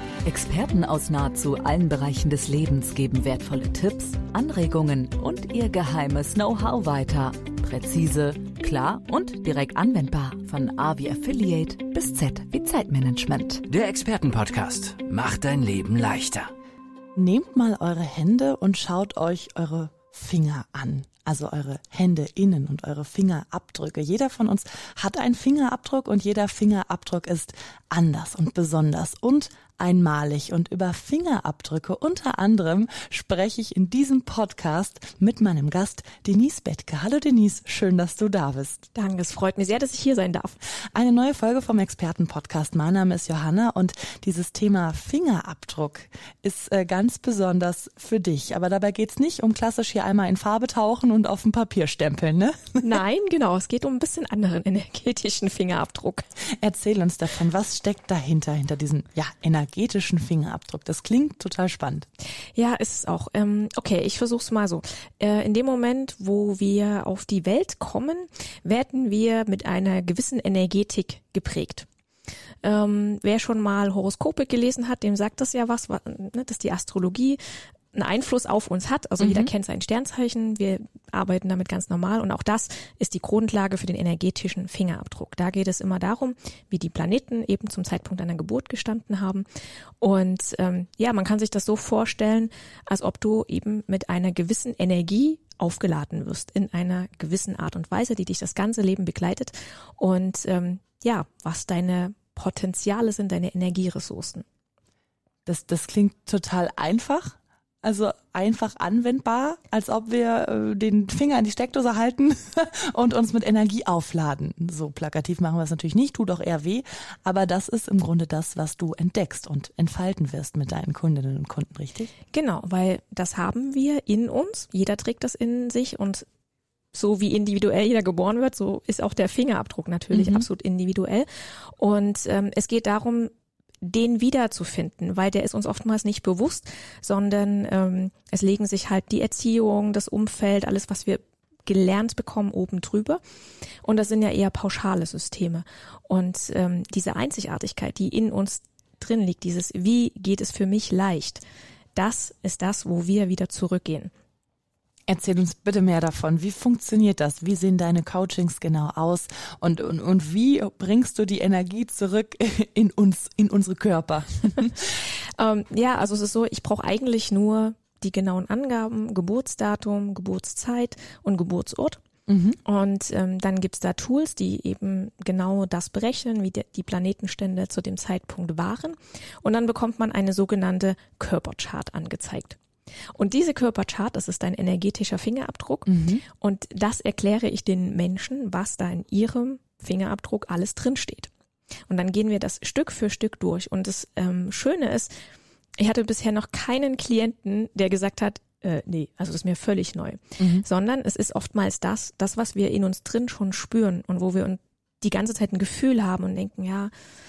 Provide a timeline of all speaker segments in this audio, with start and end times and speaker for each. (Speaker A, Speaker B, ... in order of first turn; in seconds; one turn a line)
Speaker A: 0.2-13.7
Speaker B: 13.7-16.5
Speaker C: 14.0-14.5
Speaker C: 15.8-16.2
Speaker D: 17.1-38.8
Speaker C: 38.9-40.6
Speaker D: 40.8-53.0
Speaker C: 52.8-56.3
Speaker D: 56.6-62.1
Speaker C: 62.5-71.9
Speaker C: 72.6-77.4
Speaker C: 77.9-89.5
Speaker D: 79.2-79.5
Speaker C: 90.0-104.4
Speaker D: 105.5-122.1
Speaker C: 122.3-126.2
Speaker C: 126.9-143.2
Speaker D: 130.1-130.5
Speaker C: 143.8-151.4
Speaker C: 151.9-154.1
Speaker D: 155.1-164.9
Speaker C: 165.3-172.0
Speaker D: 172.3-172.6
Speaker C: 172.6-182.6
Speaker C: 183.1-191.3
Speaker D: 185.9-186.2
Speaker C: 191.9-195.2
Speaker C: 195.8-206.9
Speaker D: 200.4-200.6